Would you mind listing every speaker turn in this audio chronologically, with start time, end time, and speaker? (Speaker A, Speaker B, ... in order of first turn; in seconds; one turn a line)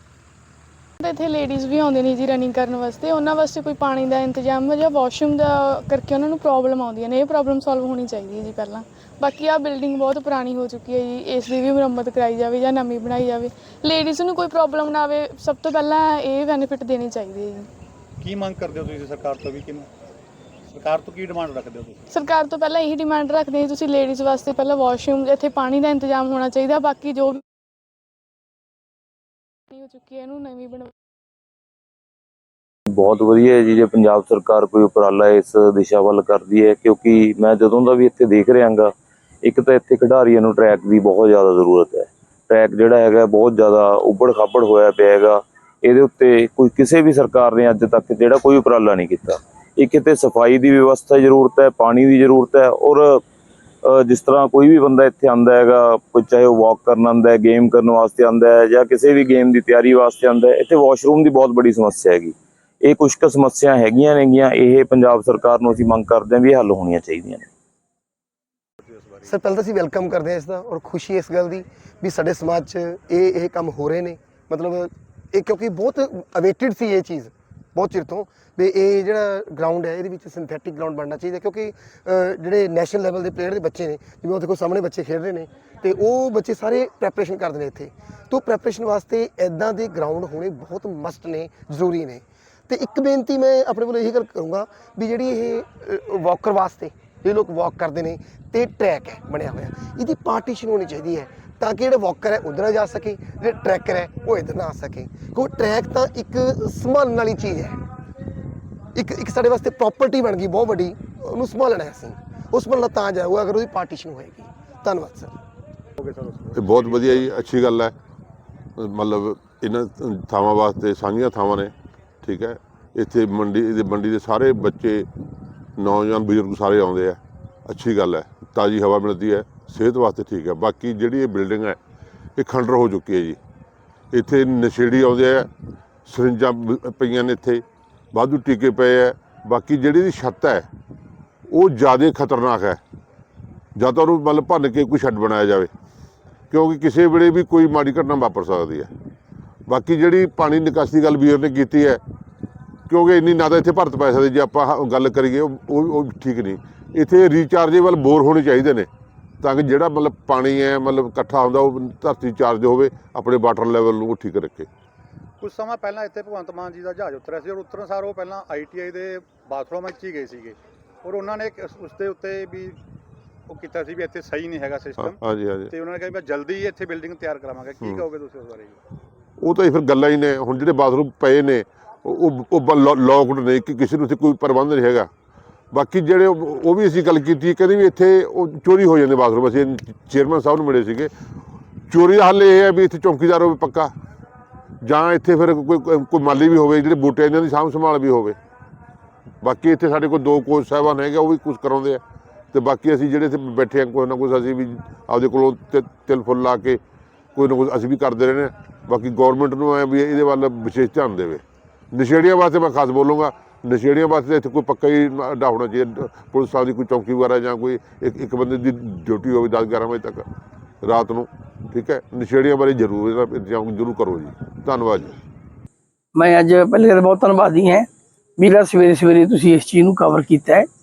Speaker A: 1.0-17.7
Speaker B: 18.2-19.9
Speaker B: 20.7-22.0
Speaker A: 22.1-27.4
Speaker A: 29.7-30.9
Speaker C: 32.9-53.2
Speaker C: 53.8-67.5
Speaker D: 69.2-107.8
Speaker D: 108.9-115.3
Speaker B: 116.0-117.5
Speaker E: 116.5-117.9
Speaker E: 118.8-125.1
Speaker E: 125.8-131.8
Speaker E: 132.4-133.4
Speaker E: 134.1-135.5
Speaker E: 136.1-140.7
Speaker E: 141.5-142.8
Speaker E: 143.8-145.7
Speaker E: 146.5-148.9
Speaker E: 149.7-152.0
Speaker E: 152.9-158.9
Speaker E: 159.4-164.7
Speaker B: 165.4-172.8
Speaker B: 173.5-175.2
Speaker E: 175.0-175.7
Speaker B: 175.7-178.8
Speaker E: 177.8-178.1
Speaker E: 179.4-185.1
Speaker E: 185.7-191.1
Speaker E: 191.9-193.9
Speaker E: 194.8-198.4
Speaker E: 199.4-202.0
Speaker E: 202.5-206.8
Speaker E: 207.3-220.2
Speaker E: 220.8-225.2
Speaker F: 226.1-227.9
Speaker F: 228.4-230.7